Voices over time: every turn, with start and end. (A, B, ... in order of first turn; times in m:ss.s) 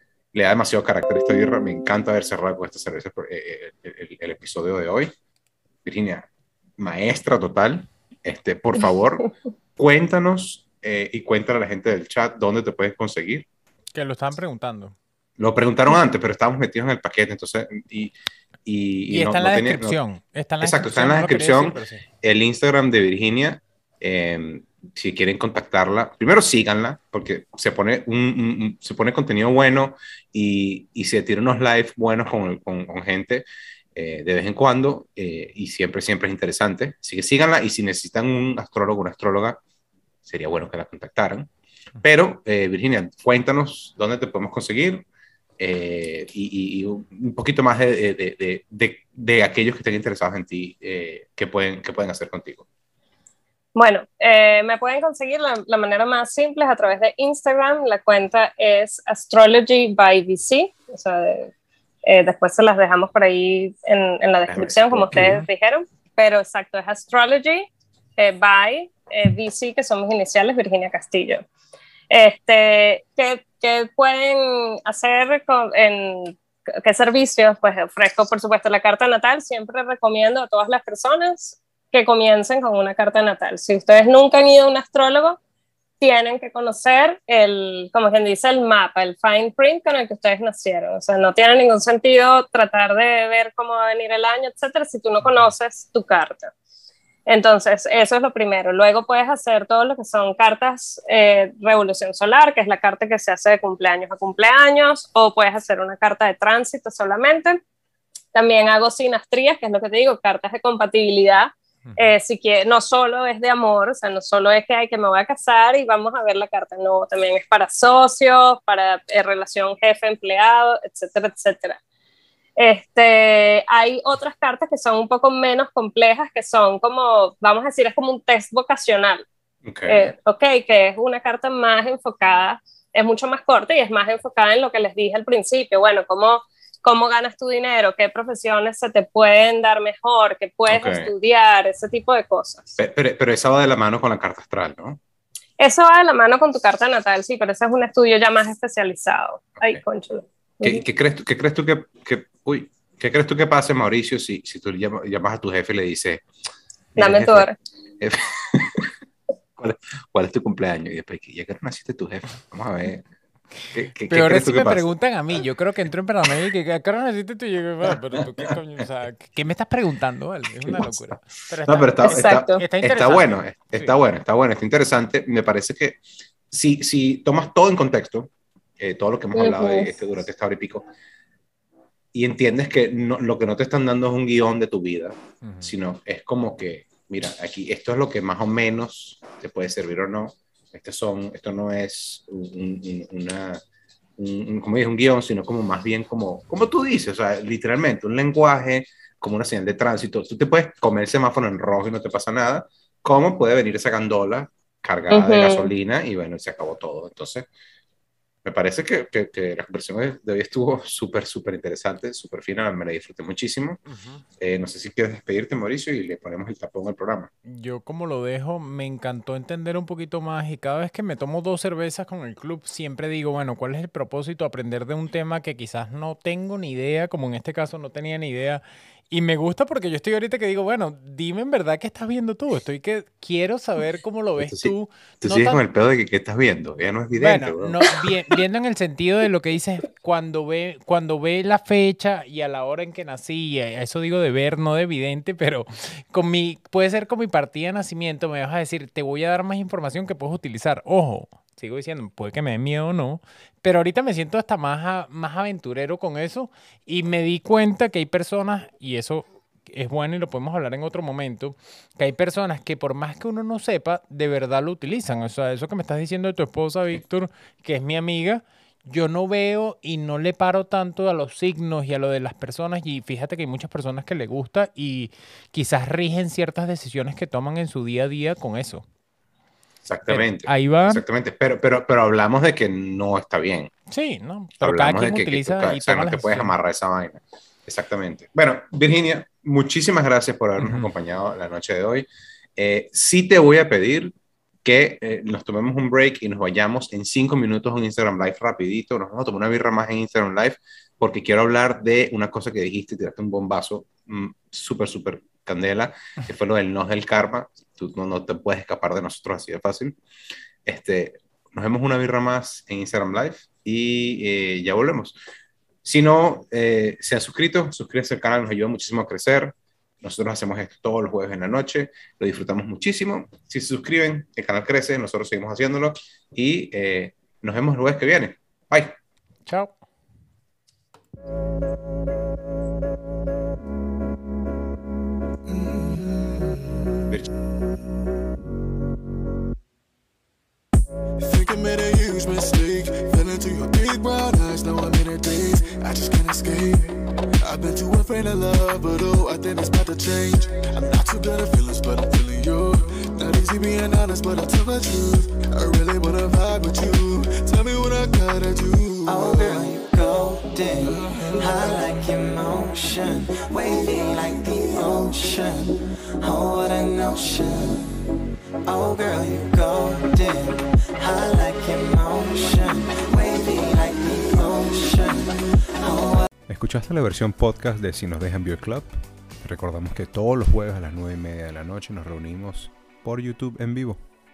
0:00.3-0:05.1 A
0:05.8-0:13.5 A
0:13.9-0:14.9 B
0:15.4-0:18.1 A
0:18.6-0:20.0 A
0:19.1-0:22.0 B
0:20.6-0:39.6 A
0:40.2-0:41.5 A
0:42.0-0:45.0 A
0:45.6-0:52.6 A
0:53.7-1:01.5 C
1:02.0-1:11.4 C
1:04.5-1:05.4 A
1:12.1-1:25.4 C
1:26.0-1:36.5 C
1:37.3-1:47.6 C
1:48.3-2:01.8 C
1:51.8-1:52.1 B
2:02.6-2:09.2 C
2:09.6-2:10.1 A
2:09.9-2:22.8 C
2:20.7-2:21.1 A
2:22.8-2:25.0 A
2:25.6-2:30.8 C
2:30.6-2:36.2 A
2:36.9-2:38.9 A
2:37.0-2:37.5 C
2:39.6-2:43.0 A
2:43.7-2:44.9 A
2:44.1-2:53.9 B
2:48.2-2:48.5 A
2:50.6-2:56.0 A
2:52.0-2:52.6 C
2:56.5-3:00.9 A
2:59.3-2:59.9 C
3:02.1-3:13.6 A
3:05.4-3:05.7 B
3:14.2-3:27.5 A
3:25.1-3:25.7 C
3:28.4-3:33.8 A
3:33.9-3:34.2 B
3:34.4-3:37.3 A
3:37.4-3:55.6 B
3:54.4-3:58.1 A
3:57.1-4:38.9 B
4:39.8-4:43.7 A
4:40.1-4:41.0 B
4:43.9-4:46.5 B
4:44.6-5:10.0 A
4:50.6-4:50.9 B
5:10.6-5:15.2 A
5:15.8-5:29.0 A
5:29.4-5:29.7 B
5:35.4-5:36.6 D
5:41.2-5:59.6 D
5:59.0-6:08.0 E
6:00.9-6:01.2 D
6:08.6-6:16.3 E
6:16.5-6:24.1 F